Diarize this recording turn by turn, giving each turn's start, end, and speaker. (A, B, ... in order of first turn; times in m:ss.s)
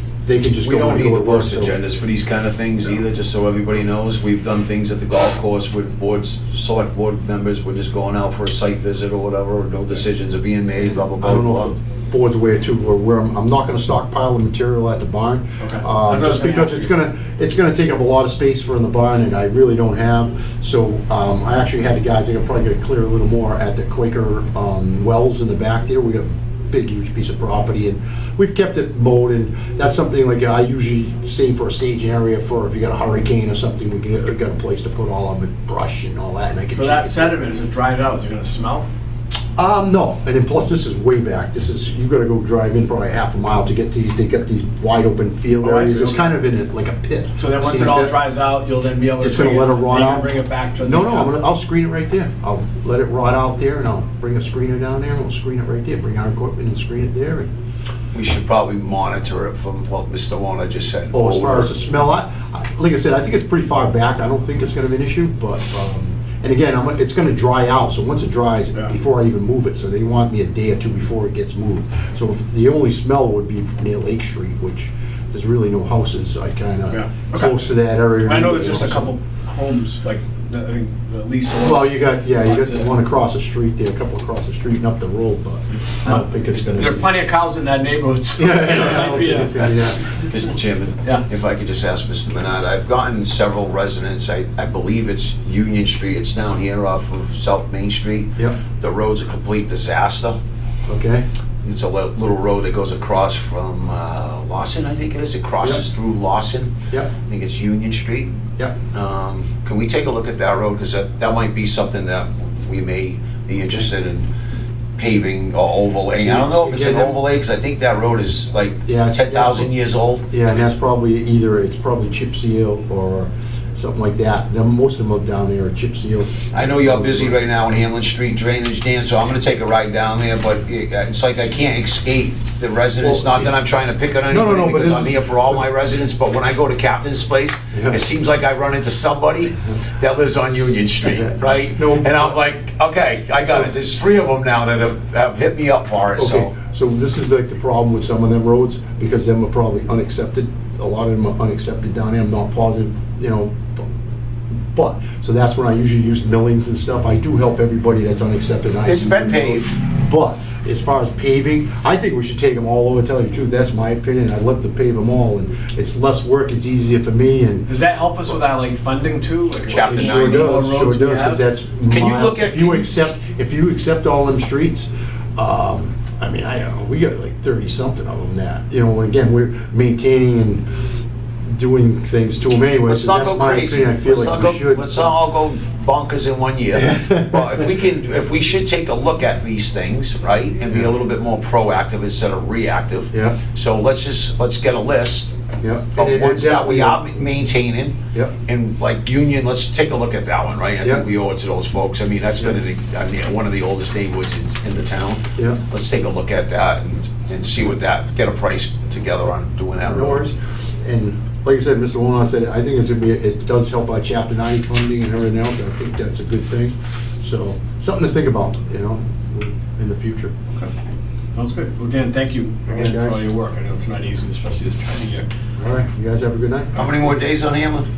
0:00.2-0:01.8 A
0:00.6-0:11.7 B
0:10.8-0:37.4 A
0:15.6-0:16.9 C
0:36.7-0:38.9 C
0:39.6-0:48.1 A
0:45.6-0:46.4 C
0:47.4-0:51.3 C
0:49.2-0:50.3 A
0:50.8-0:57.5 A
0:58.1-1:01.7 B
1:01.1-1:19.1 A
1:16.9-1:17.6 C
1:18.2-1:22.9 C
1:21.6-1:27.1 A
1:26.0-1:29.8 C
1:28.4-1:30.0 A
1:29.8-1:40.4 B
1:40.9-1:41.3 A
1:41.6-1:46.7 B
1:47.2-1:48.3 B
1:48.9-1:54.3 B
1:55.0-2:00.2 B
1:56.2-1:57.2 A
1:58.9-1:59.8 A
2:00.3-2:07.4 A
2:06.5-2:26.5 B
2:13.0-2:13.6 A
2:14.3-2:15.6 A
2:17.7-2:18.0 A
2:21.1-2:22.4 A
2:23.4-2:23.7 A
2:26.2-2:33.8 A
2:34.7-2:47.7 A
2:38.9-2:39.7 B
2:47.7-2:51.4 C
2:49.7-2:50.6 B
2:49.8-3:00.6 A
2:51.9-2:52.9 B
3:01.5-3:05.1 A
3:02.8-3:15.3 B
3:06.7-3:07.7 A
3:13.1-3:13.4 A
3:15.6-3:17.0 A
3:16.0-3:30.2 B
3:29.8-3:40.4 A
3:41.3-3:45.3 C
3:42.7-3:43.2 A
3:45.6-3:46.8 A
3:46.8-3:47.9 B